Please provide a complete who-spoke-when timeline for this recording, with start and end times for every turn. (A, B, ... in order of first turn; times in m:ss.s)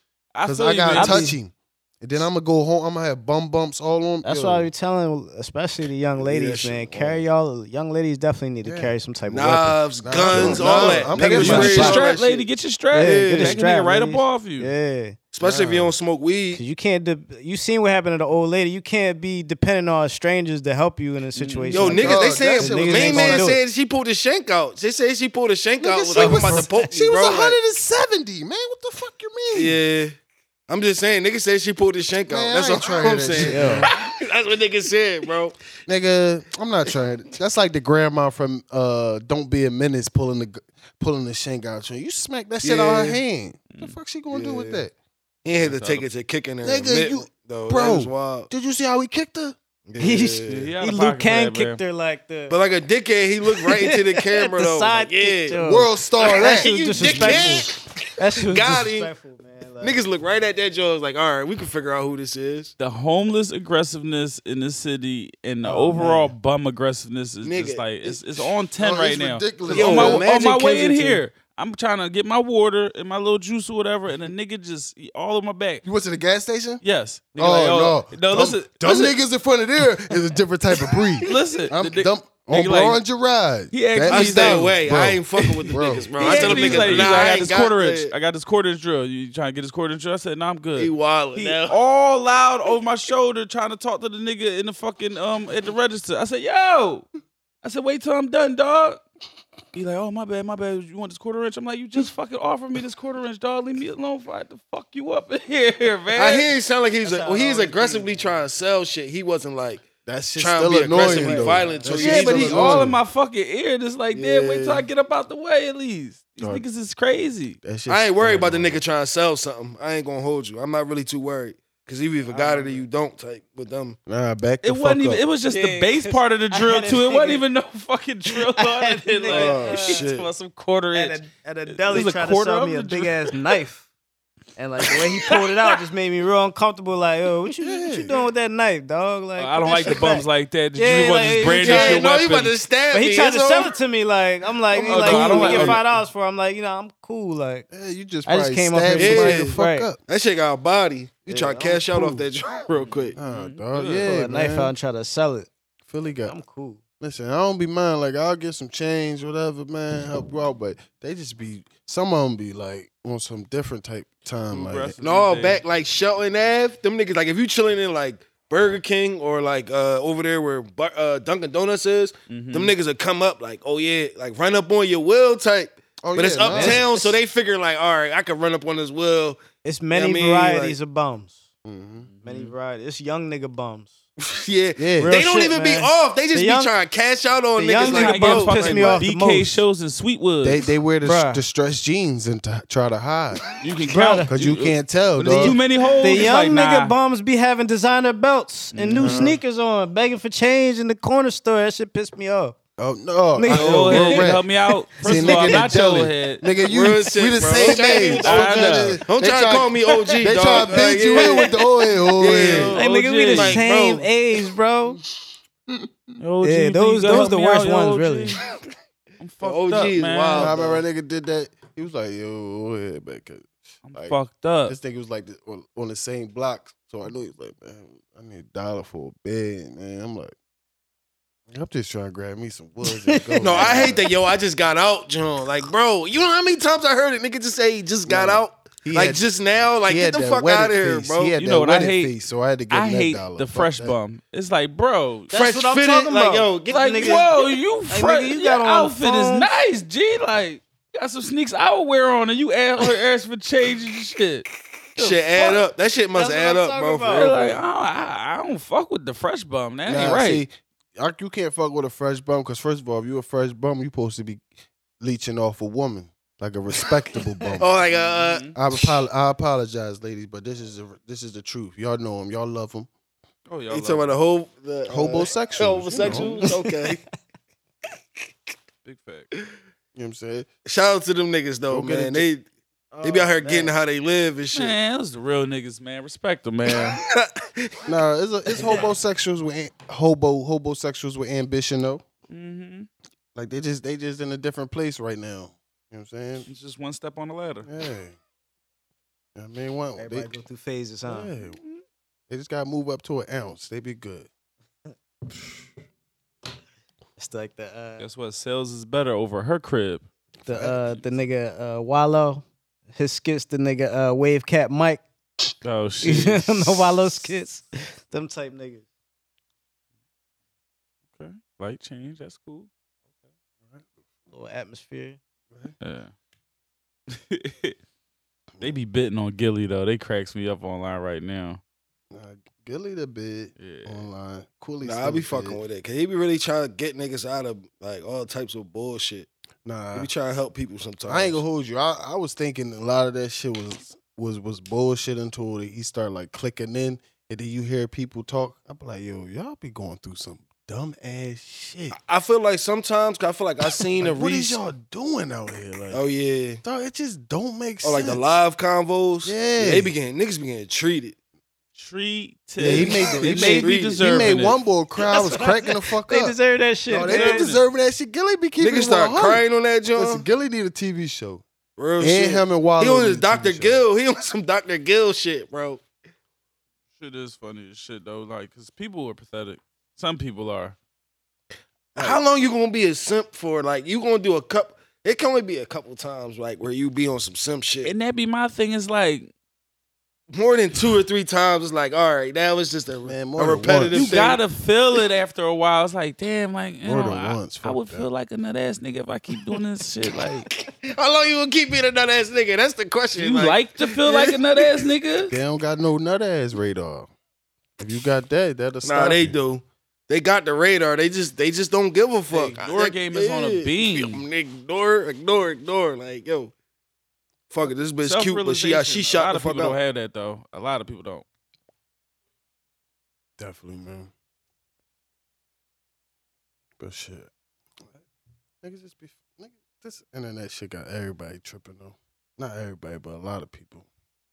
0:00.3-0:01.3 A
0:00.4-0:04.7 B
0:00.9-0:01.4 C
0:04.2-0:12.0 C
0:06.2-0:07.2 D
0:08.6-0:08.9 B
0:09.3-0:13.6 D
0:10.0-0:12.0 B
0:11.2-0:14.7 A
0:12.9-0:15.2 C
0:15.3-0:16.6 D
0:15.4-0:15.9 B
0:16.5-0:23.6 C
0:21.4-0:22.0 A
0:21.7-0:27.6 D
0:21.9-0:23.6 B
0:25.8-0:29.8 B
0:26.2-0:26.7 C
0:29.5-0:30.1 D
0:30.7-0:35.6 D
0:32.3-0:33.9 B
0:33.4-0:33.9 C
0:35.9-0:44.9 B
0:42.6-0:43.2 D
0:44.3-0:44.8 D
0:45.4-0:48.5 D
0:45.6-0:46.1 A
0:46.6-0:49.6 B
0:49.9-0:50.7 D
0:50.0-0:52.6 C
0:50.5-0:51.8 A
0:52.5-0:55.6 D
0:53.5-1:00.0 C
0:55.6-0:57.6 B
0:56.2-0:59.1 D
0:59.8-1:02.7 D
1:02.8-1:15.8 A
1:05.6-1:06.3 C
1:07.4-1:08.5 D
1:08.8-1:10.3 B
1:09.7-1:11.2 D
1:15.8-1:16.8 B
1:16.8-1:19.2 A
1:17.4-1:27.2 B
1:21.2-1:23.0 A
1:23.7-1:24.8 A
1:24.1-1:28.1 D
1:26.2-1:37.0 A
1:30.8-1:31.8 D
1:37.6-1:39.0 A
1:39.7-1:46.5 A
1:46.1-1:49.8 D
1:47.0-1:48.3 C
1:50.0-1:53.0 B
1:50.4-1:52.9 D
1:51.0-1:52.0 C
1:52.0-1:57.6 A
1:54.1-1:54.8 D
1:56.4-1:56.6 B
1:57.6-1:58.8 B
1:57.9-2:04.0 D
2:02.3-2:02.8 A
2:04.0-2:05.2 B
2:04.6-2:13.3 A
2:05.5-2:07.4 C
2:08.3-2:10.0 C
2:09.3-2:10.3 D
2:10.9-2:13.8 C
2:14.6-2:22.0 C
2:17.6-2:18.2 B
2:19.4-2:22.6 A
2:20.9-2:23.7 D
2:22.9-2:27.7 C
2:24.7-2:25.8 D
2:24.8-2:25.8 A
2:27.7-2:30.0 B
2:28.3-2:29.9 C
2:29.0-2:33.2 D
2:31.3-2:32.2 C
2:32.7-2:34.1 A
2:33.2-2:34.7 B
2:34.0-2:35.5 C
2:35.9-2:36.4 B
2:36.3-2:36.8 C
2:37.0-2:44.9 B
2:44.5-2:45.6 A
2:45.0-3:00.8 D
2:52.3-2:52.7 A
2:56.0-2:56.9 B
2:56.5-2:57.2 C
2:59.6-3:01.4 C
3:01.6-3:02.1 B
3:02.0-3:02.6 A
3:02.2-3:03.9 C
3:04.2-3:09.0 D
3:04.8-3:05.2 B
3:05.0-3:06.7 C
3:07.6-3:09.6 C
3:07.8-3:10.6 A
3:10.4-3:13.4 B
3:11.0-3:11.4 C
3:13.6-3:16.9 A
3:13.9-3:14.3 C
3:14.3-3:15.6 B
3:15.3-3:22.6 C
3:18.7-3:19.3 A
3:19.0-3:19.4 B
3:22.8-3:24.4 B
3:23.4-3:24.4 C
3:23.5-3:26.4 A
3:25.0-3:32.7 B
3:25.0-3:25.6 C
3:26.6-3:31.6 D
3:28.2-3:29.0 A
3:32.2-3:32.8 D
3:32.3-3:33.6 A
3:32.7-3:35.0 C
3:33.3-3:34.1 D
3:36.2-3:38.4 A
3:36.4-3:38.4 C
3:39.2-3:40.5 A
3:39.4-3:40.8 D
3:40.3-3:50.3 B
3:43.8-3:44.8 A
3:51.5-3:54.1 B
3:53.1-3:54.1 C
3:53.4-4:01.3 D
3:58.0-3:59.2 B
3:59.9-4:04.0 B
4:01.4-4:02.1 A
4:02.7-4:05.3 A
4:05.3-4:09.5 C
4:05.3-4:07.3 D
4:06.7-4:15.6 A
4:15.0-4:17.6 D
4:16.1-4:17.6 C
4:17.1-4:20.4 A
4:19.9-4:24.4 B
4:25.0-4:27.7 B
4:27.6-4:28.8 D
4:27.9-4:28.6 A
4:28.6-4:32.9 B
4:33.5-4:34.1 A
4:33.7-4:37.0 D
4:34.9-4:36.4 B
4:36.4-4:37.0 C
4:38.8-4:39.3 A
4:39.9-4:40.5 B
4:40.6-4:42.4 D
4:41.7-4:42.3 B
4:42.9-4:43.7 B
4:43.0-4:44.7 D
4:44.5-4:47.0 A
4:46.7-4:47.8 D
4:47.9-4:52.0 B
4:52.3-4:52.9 A
4:53.3-4:56.5 B
4:56.4-4:57.7 A
4:57.6-4:58.2 B
4:59.3-5:00.3 B
5:00.0-5:01.3 C
5:01.0-5:01.6 B
5:01.4-5:01.8 A
5:02.3-5:04.3 B
5:07.2-5:08.0 C
5:08.0-5:10.0 A
5:10.4-5:15.0 C
5:10.4-5:11.0 B
5:15.6-5:17.2 A
5:16.0-5:18.8 C
5:21.2-5:22.7 A
5:24.3-5:25.2 C
5:25.8-5:26.1 A
5:27.1-5:27.8 A
5:28.6-5:31.6 A
5:32.1-5:35.6 B
5:33.6-5:34.1 A
5:34.8-5:39.3 D
5:39.6-5:40.1 B
5:39.9-5:41.4 D
5:41.1-5:52.0 B
5:51.9-5:54.6 D
5:54.0-5:56.0 B
5:55.9-5:56.6 D
5:56.6-5:58.2 B
5:57.8-6:01.2 D
5:59.2-5:59.9 B
6:01.7-6:04.6 A
6:02.6-6:06.4 B
6:02.6-6:04.3 D
6:05.1-6:05.5 C
6:06.1-6:07.5 C
6:06.9-6:11.4 B
6:06.9-6:07.6 A
6:08.6-6:10.2 D
6:11.8-6:15.8 D
6:12.0-6:13.8 B
6:17.0-6:20.8 A
6:22.0-6:27.9 D
6:27.8-6:29.3 A
6:30.3-6:34.4 D
6:33.0-6:34.2 B
6:33.9-6:40.5 A
6:36.8-6:38.1 B
6:40.6-6:44.6 D
6:43.1-6:45.3 A
6:45.3-6:47.1 B
6:47.8-6:49.4 B
6:48.8-6:56.5 D
6:52.3-6:54.2 A
6:57.5-6:59.8 D
6:58.0-7:01.2 A
7:03.4-7:04.1 B
7:06.8-7:07.3 B
7:08.6-7:13.9 B